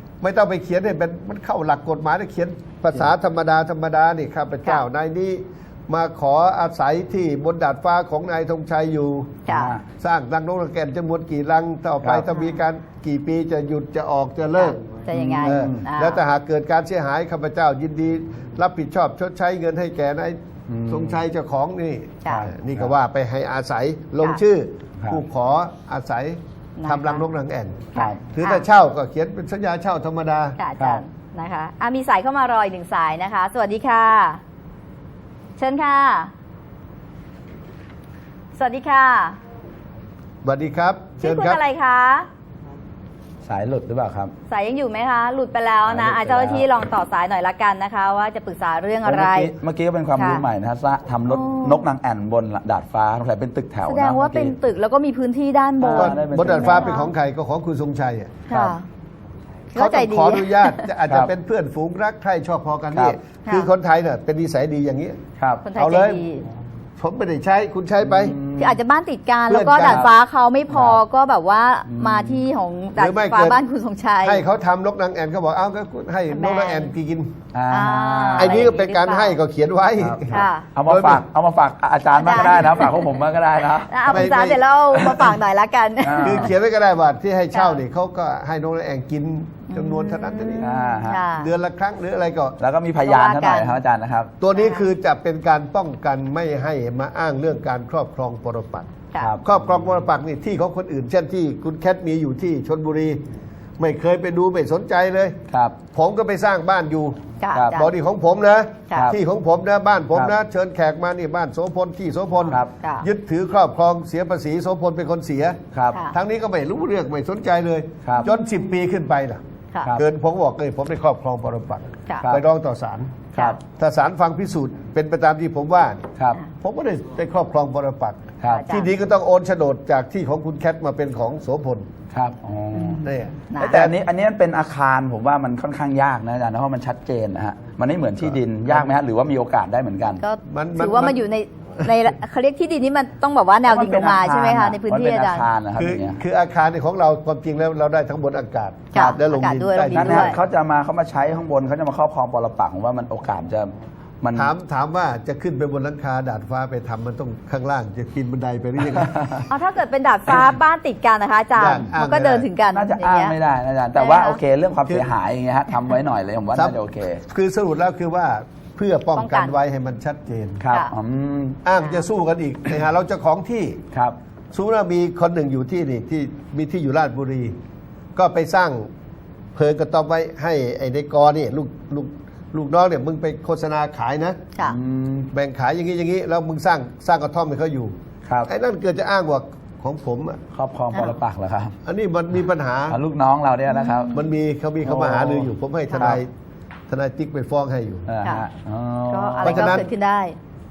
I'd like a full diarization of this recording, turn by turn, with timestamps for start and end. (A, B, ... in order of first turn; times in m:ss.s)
0:00.2-0:09.4 A
0:09.5-0:09.8 B
0:09.5-0:09.8 C
0:10.0-0:14.8 A
0:14.6-0:16.2 B
0:15.1-0:15.8 C
0:15.4-0:30.6 A
0:20.7-0:21.2 C
0:22.3-0:22.9 C
0:26.8-0:27.3 B
0:27.9-0:28.7 B
0:28.0-0:28.2 C
0:30.6-0:34.4 B
0:35.6-0:36.3 B
0:38.6-0:39.4 B
0:40.4-0:41.6 A
0:41.2-0:42.3 B
0:43.4-0:44.3 C
0:44.5-0:49.6 B
0:45.9-0:46.7 C
0:49.0-0:54.6 C
0:50.2-0:50.4 B
0:51.2-0:51.8 B
0:53.8-0:57.1 B
0:55.8-0:57.0 C
0:55.9-0:58.3 A
0:58.5-0:58.9 B
0:58.5-0:58.8 C
0:59.8-1:00.9 B
0:59.8-1:05.2 A
1:05.4-1:05.6 C
1:05.6-1:06.5 B
1:05.8-1:06.2 A
1:07.0-1:08.4 A
1:08.0-1:08.8 C
1:08.4-1:14.4 B
1:09.5-1:10.1 A
1:09.8-1:10.1 C
1:10.7-1:11.0 C
1:11.9-1:12.4 C
1:13.0-1:13.6 A
1:14.2-1:17.3 A
1:16.3-1:16.9 B
1:17.5-1:18.7 C
1:17.7-1:19.4 B
1:18.4-1:21.2 A
1:20.0-1:24.4 C
1:20.3-1:20.7 B
1:22.2-1:22.9 B
1:23.9-1:26.5 B
1:24.1-1:24.6 A
1:24.9-1:25.4 C
1:26.0-1:26.5 C
1:26.2-1:30.7 A
1:27.5-1:27.8 B
1:29.7-1:31.5 B
1:30.6-1:31.2 C
1:31.3-1:32.6 A
1:32.6-1:34.3 C
1:33.0-1:33.8 B
1:34.4-1:38.9 A
1:34.5-1:34.9 B
1:39.2-1:39.4 C
1:39.4-1:43.2 A
1:43.8-1:45.4 A
1:45.5-1:45.8 C
1:45.9-1:59.4 A
1:47.4-1:47.9 B
1:47.5-1:47.8 C
1:52.8-1:53.1 B
1:55.9-1:56.2 B
1:58.2-1:58.6 B
1:59.9-2:06.1 A
2:03.4-2:03.6 B
2:06.6-2:11.9 A
2:08.4-2:08.9 B
2:12.1-2:13.0 C
2:12.8-2:13.9 B
2:13.0-2:13.9 A
2:13.6-2:20.2 C
2:20.2-2:25.5 B
2:20.5-2:21.2 A
2:23.7-2:26.2 C
2:25.8-2:30.4 A
2:28.9-2:30.4 B
2:29.9-2:34.5 C
2:34.4-2:39.4 A
2:39.5-2:43.4 B
2:41.6-2:42.5 A
2:42.7-2:47.2 C
2:44.0-2:44.4 B
2:46.5-2:50.6 A
2:49.2-2:49.6 B
2:50.6-2:51.6 C
2:51.6-2:53.8 A
2:51.8-2:52.0 B
2:54.5-2:57.6 A
2:58.2-2:58.9 A
2:59.6-3:04.4 A
3:04.6-3:05.3 C
3:05.3-3:08.0 A
3:08.5-3:10.4 A
3:10.5-3:11.8 C
3:10.9-3:11.2 B
3:11.8-3:13.0 A
3:12.9-3:14.2 C
3:13.7-3:14.3 B
3:14.1-3:16.3 A
3:14.8-3:16.2 C
3:15.9-3:16.2 B
3:16.9-3:18.1 A
3:18.1-3:19.9 C
3:19.1-3:20.4 B
3:19.4-3:19.9 A